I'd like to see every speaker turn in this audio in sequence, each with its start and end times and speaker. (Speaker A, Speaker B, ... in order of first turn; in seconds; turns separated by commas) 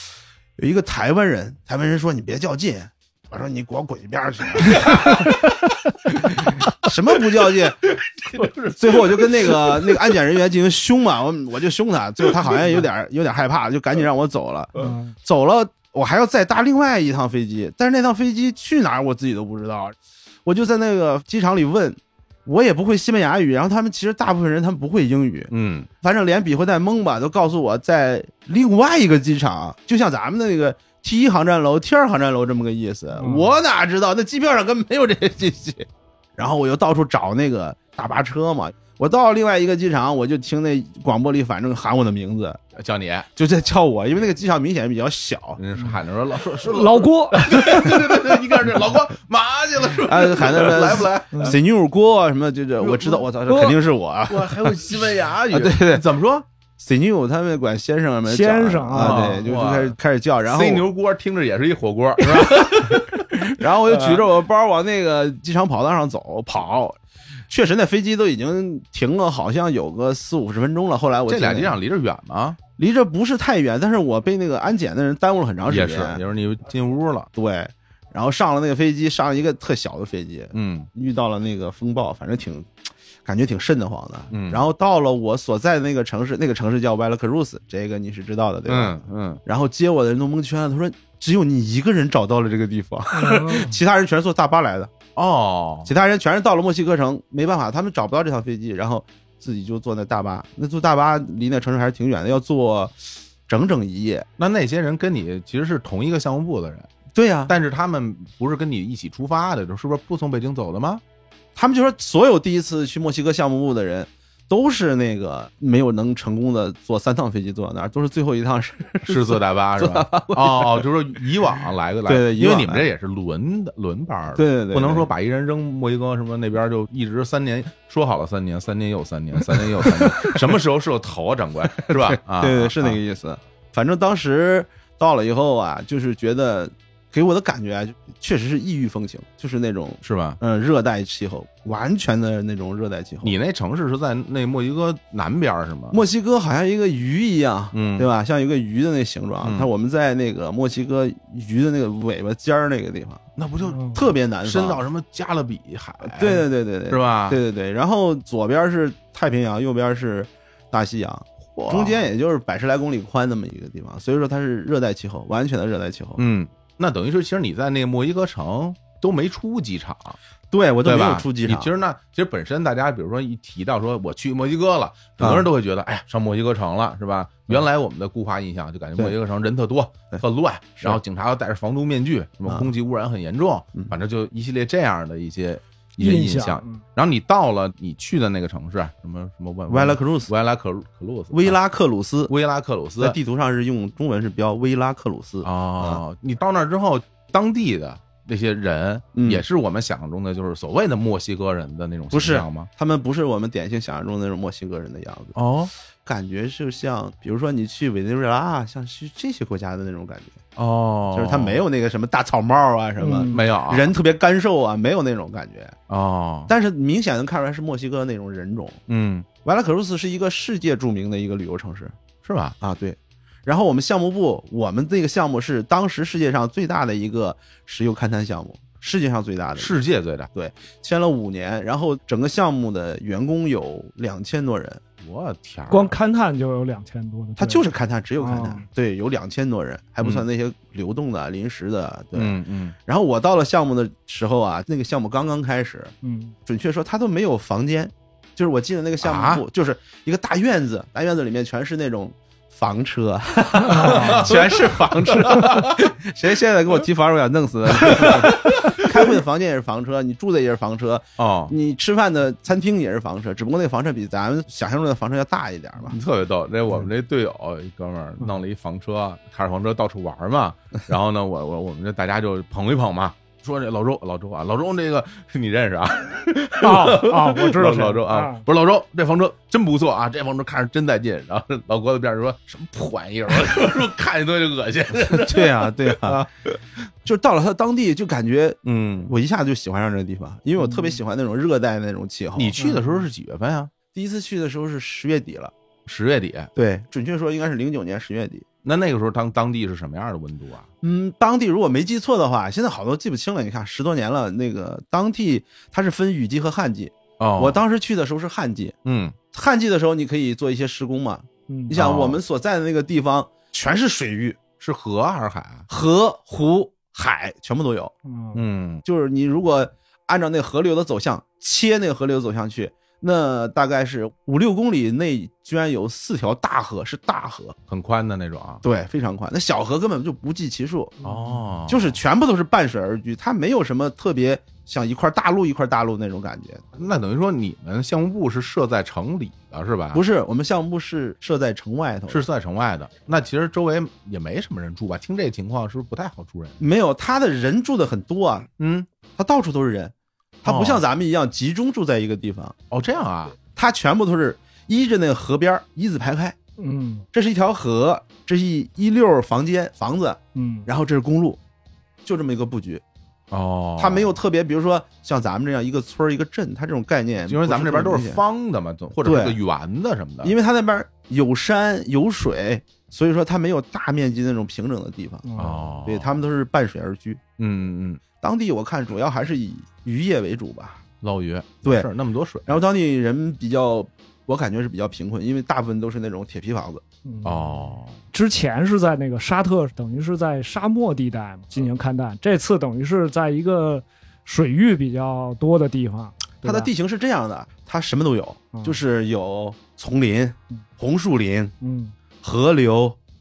Speaker A: 0.6-5.3, Speaker B: 4.6-10.2, Speaker A: 6.8-7.8, Speaker A: 8.8-42.6, Speaker B: 12.2-12.8, Speaker C: 14.8-15.1, Speaker B: 25.5-25.9, Speaker C: 33.2-33.6, Speaker B: 42.7-43.3, Speaker A: 43.4-45.6, Speaker B: 45.6-51.6, Speaker C: 46.6-48.0, Speaker A: 49.9-56.0, Speaker B: 52.8-53.2, Speaker C: 53.5-53.7, Speaker B: 54.3-56.5, Speaker A: 56.8-60.9, Speaker C: 58.3-59.5, Speaker B: 58.9-64.3, Speaker A: 62.2-62.8, Speaker A: 63.5-67.0, Speaker A: 67.5-71.8, Speaker B: 71.3-72.6, Speaker A: 72.8-76.2, Speaker B: 75.6-77.3, Speaker A: 77.3-82.7, Speaker B: 80.5-80.9, Speaker A: 83.2-94.9, Speaker B: 84.3-84.6, Speaker B: 88.7-89.4, Speaker C: 93.1-93.7, Speaker B: 95.1-95.9, Speaker A: 95.8-102.9, Speaker A: 103.5-104.3, Speaker B: 104.4-106.9, Speaker A: 107.1-107.5, Speaker B: 107.5-111.0, Speaker A: 111.5-120.8, Speaker B: 119.0-133.0, Speaker A: 122.1-122.8, Speaker A: 124.3-125.1, Speaker A: 129.8-130.4, Speaker A: 131.8-143.4, Speaker B: 140.0-140.4, Speaker B: 143.2-146.0, Speaker A: 145.9-153.2, Speaker B: 147.7-148.1, Speaker B: 149.4-149.7, Speaker B: 153.3-157.4, Speaker C: 153.7-154.0, Speaker A: 153.9-154.8, Speaker A: 156.0-166.2, Speaker B: 161.6-162.1, Speaker B: 166.2-170.2, Speaker A: 170.5-171.7, Speaker B: 170.8-191.6, Speaker A: 175.2-175.5, Speaker C: 186.0-186.8, Speaker A: 189.7-190.3, Speaker A: 191.3-192.3, Speaker B: 192.3-193.2, Speaker A: 193.0-196.0, Speaker B: 195.4-202.7, Speaker A: 199.1-199.4, Speaker A: 202.1-205.3, Speaker B: 205.3-205.7, Speaker A: 206.0-210.4, Speaker B: 210.6-211.6, Speaker A: 211.1-215.7, Speaker C: 213.0-213.4, Speaker B: 213.2-213.9, Speaker B: 215.9-216.5, Speaker A: 216.5-218.8, Speaker B: 218.9-219.3, Speaker A: 219.4-221.9, Speaker B: 222.2-222.6, Speaker A: 222.6-229.7, Speaker B: 229.6-230.3, Speaker A: 230.3-234.8, Speaker B: 235.0-235.9, Speaker C: 235.7-237.7, Speaker A: 237.4-245.9, Speaker C: 238.2-238.6, Speaker B: 242.1-242.8, Speaker C: 246.0-246.3, Speaker A: 246.4-266.0, Speaker B: 249.0-249.4, Speaker C: 253.7-254.2, Speaker B: 253.7-255.8, Speaker B: 257.9-258.9, Speaker B: 261.2-261.5, Speaker B: 265.9-286.6, Speaker C: 276.6-278.4, Speaker A: 285.1-286.3, Speaker A: 287.0-292.6, Speaker B: 288.6-289.1, Speaker B: 292.4-293.7, Speaker C: 292.6-292.9, Speaker A: 293.9-295.5, Speaker B: 295.9-296.5, Speaker A: 296.5-298.4, Speaker B: 298.6-300.6, Speaker A: 300.8-308.7, Speaker B: 307.2-307.6, Speaker B: 308.8-309.1, Speaker A: 309.3-314.4, Speaker C: 311.5-311.7, Speaker B: 311.7-312.2, Speaker B: 314.6-315.6, Speaker A: 315.7-317.9, Speaker C: 318.1-318.4, Speaker B: 318.3-318.8, Speaker A: 318.8-327.6, Speaker B: 327.7-328.6, Speaker A: 328.6-330.9, Speaker B: 331.0-332.0, Speaker C: 331.0-331.4, Speaker A: 331.7-336.6, Speaker B: 336.8-340.0, Speaker A: 339.9-342.2, Speaker B: 342.1-346.6, Speaker A: 346.6-348.5, Speaker B: 348.6-348.9, Speaker A: 349.2-352.5, Speaker B: 350.4-350.8, Speaker B: 352.7-353.4, Speaker A: 353.5-356.4, Speaker C: 356.6-357.1, Speaker A: 357.1-361.4, Speaker C: 360.3-360.7, Speaker A: 362.0-362.8, Speaker B: 363.3-364.2, Speaker A: 363.8-368.2, Speaker B: 367.2-370.3, Speaker A: 369.0-369.4, Speaker A: 370.2-377.2, Speaker C: 375.2-375.7, Speaker B: 375.4-376.2, Speaker B: 377.4-378.0, Speaker A: 378.2-380.8, Speaker B: 381.0-382.6, Speaker A: 381.6-381.9, Speaker A: 382.5-386.8, Speaker C: 387.0-396.7, Speaker B: 387.2-388.0, Speaker A: 396.4-401.5, Speaker C: 398.5-398.8, Speaker C: 401.6-401.9, Speaker A: 402.2-403.0